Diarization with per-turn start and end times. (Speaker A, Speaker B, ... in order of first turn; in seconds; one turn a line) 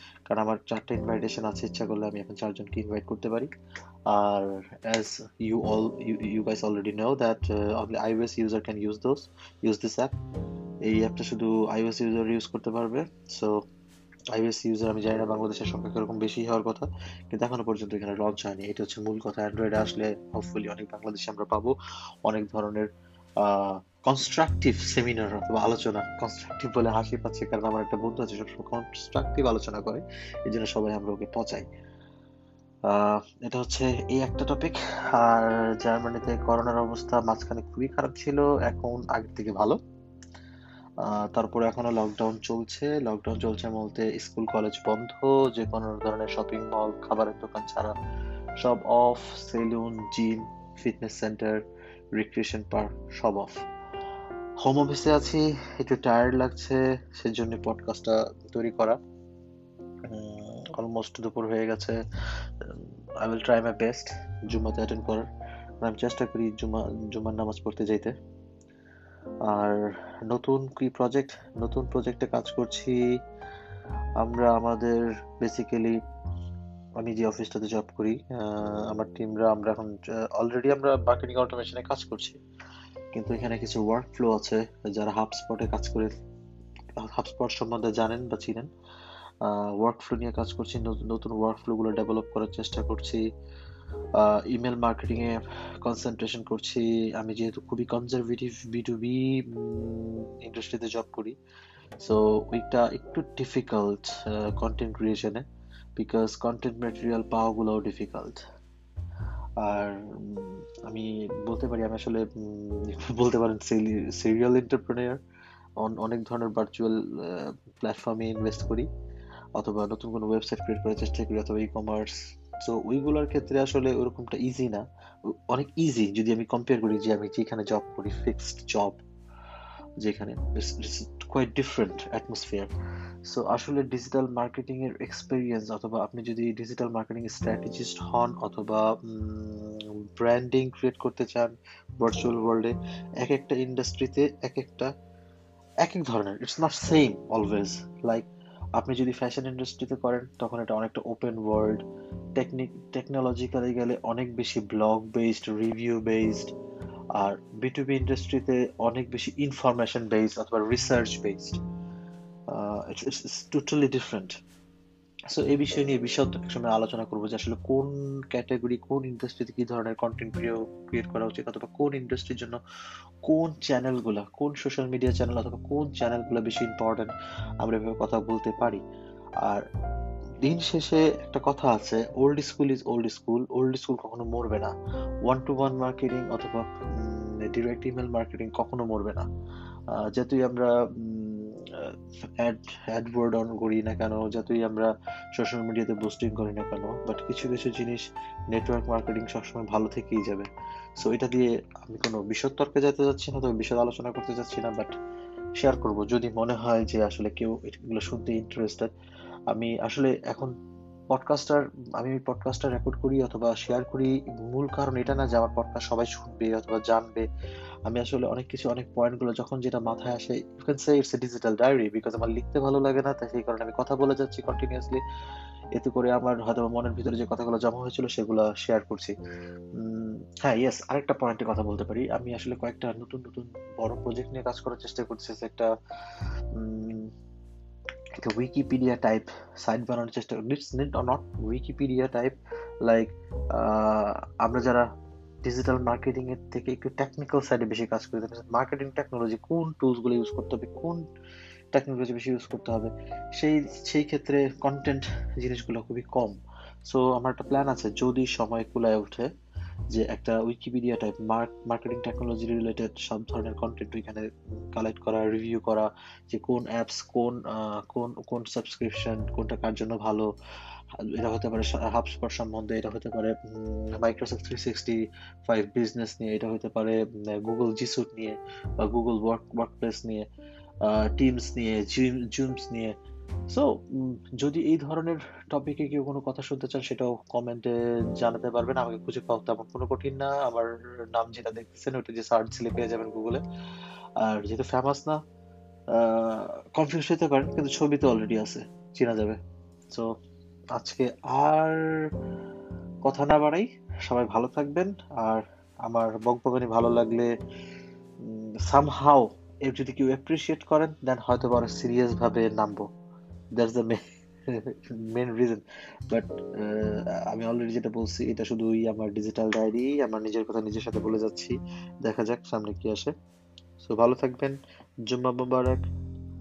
Speaker A: 0.3-3.5
Speaker A: 4.1-10.1
Speaker A: 10.8-13.6
Speaker A: 14.3-22.9
Speaker A: 23.4-31.7
Speaker A: 32.9-39.8
Speaker A: 41.0-47.9
Speaker A: 48.6-51.6
Speaker A: 52.1-53.6
Speaker A: 54.6-59.0
Speaker A: 60.1-62.0
Speaker A: 62.6-65.2
Speaker A: 65.8-68.2
Speaker A: 69.5-73.0
Speaker A: 74.2-76.0
Speaker A: 77.0-82.4
Speaker A: 83.1-86.1
Speaker A: 87.0-88.7
Speaker A: 89.4-93.2
Speaker A: 94.2-101.3
Speaker A: 102.0-105.5
Speaker A: 106.0-108.4
Speaker A: 109.6-115.2
Speaker A: 115.8-118.9
Speaker A: 119.6-124.8
Speaker A: 125.5-129.0
Speaker A: 130.0-132.7
Speaker A: 133.2-144.9
Speaker A: 145.8-151.8
Speaker A: 152.4-156.5
Speaker A: 157.2-161.6
Speaker A: 162.5-164.3
Speaker A: 165.3-172.6
Speaker A: 173.2-178.8
Speaker A: 180.4-184.7
Speaker A: 185.2-189.3
Speaker A: 189.9-200.5
Speaker A: 201.0-204.9
Speaker A: 205.6-208.9
Speaker A: 209.5-210.5
Speaker A: 211.1-217.3
Speaker A: 217.9-225.0
Speaker A: 225.8-229.1
Speaker A: 229.8-235.7
Speaker A: 236.5-237.1
Speaker A: 238.2-244.8
Speaker A: 245.4-251.1
Speaker A: 251.7-259.3
Speaker A: 259.9-270.3
Speaker A: 271.1-280.2
Speaker A: 280.9-282.9
Speaker A: 283.5-293.4
Speaker A: 294.2-295.2
Speaker A: 295.9-299.4
Speaker A: 300.8-301.8
Speaker A: 303.0-307.3
Speaker A: 308.2-312.9
Speaker A: 313.6-323.1
Speaker A: 323.8-324.6
Speaker A: 325.1-325.9